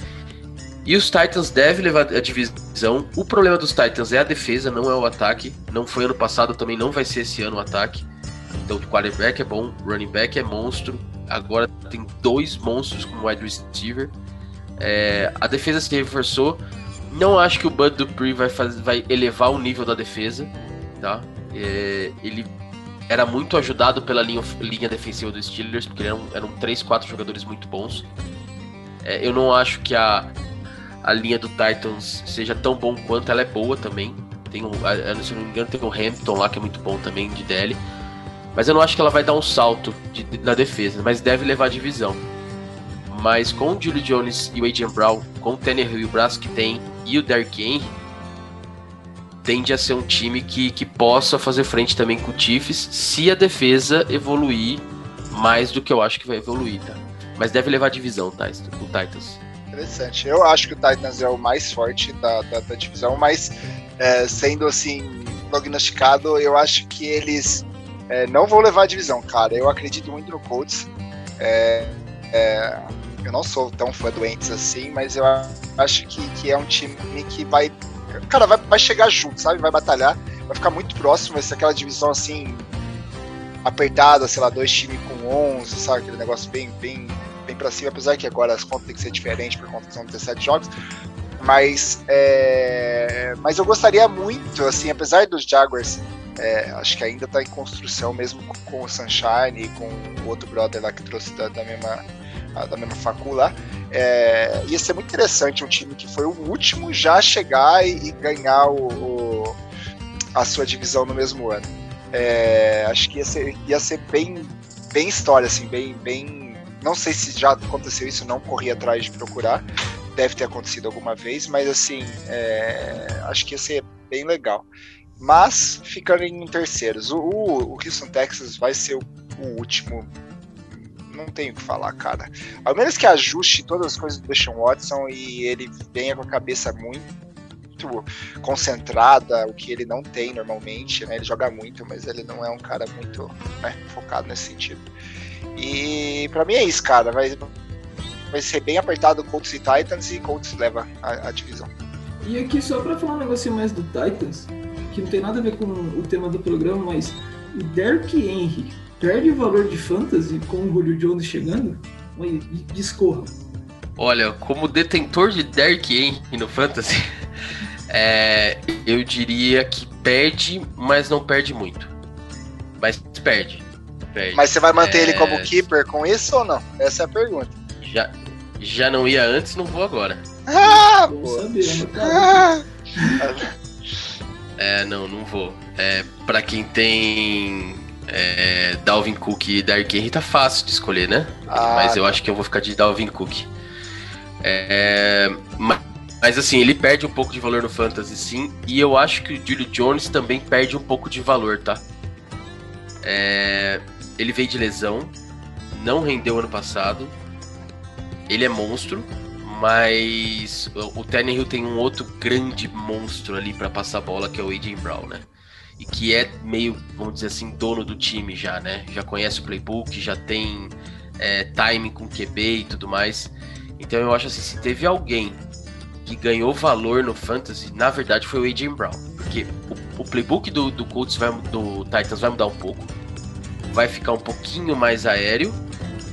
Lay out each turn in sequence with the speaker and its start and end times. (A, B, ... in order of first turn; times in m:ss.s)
0:00.8-0:08.0 A
0:08.6-0:14.1 A
0:14.8-0:22.5 A
0:23.1-0:28.1 A
0:29.0-0:30.3 A
0:31.0-0:37.8 A
0:38.5-0:42.2 A
0:43.1-0:47.9 A
0:49.4-0:59.4 A
0:59.7-1:17.7 B
1:18.3-1:22.7 B
1:23.6-1:30.7 B
1:31.4-1:42.0 B
1:42.5-1:49.6 B
1:50.4-1:59.6 B
2:00.1-2:04.7 B
2:05.2-2:10.1 B
2:10.7-2:17.1 B
2:17.8-2:24.8 B
2:25.6-2:27.5 B
2:28.3-2:31.7 B
2:32.2-2:43.3 C
2:44.0-2:47.1 A
2:47.9-2:51.9 A
2:52.8-2:55.6 A
2:54.3-2:57.5 B
2:57.8-3:00.2 A
3:00.5-3:01.5 B
3:00.6-3:03.2 C
3:02.0-3:02.6 B
3:03.2-3:03.5 B
3:04.6-3:13.5 A
3:11.5-3:12.2 B
3:14.4-3:21.8 A
3:23.0-3:25.1 A
3:25.7-3:27.1 A
3:28.3-3:35.2 A
3:35.8-3:45.4 A
3:46.0-3:52.9 A
3:53.7-3:55.6 A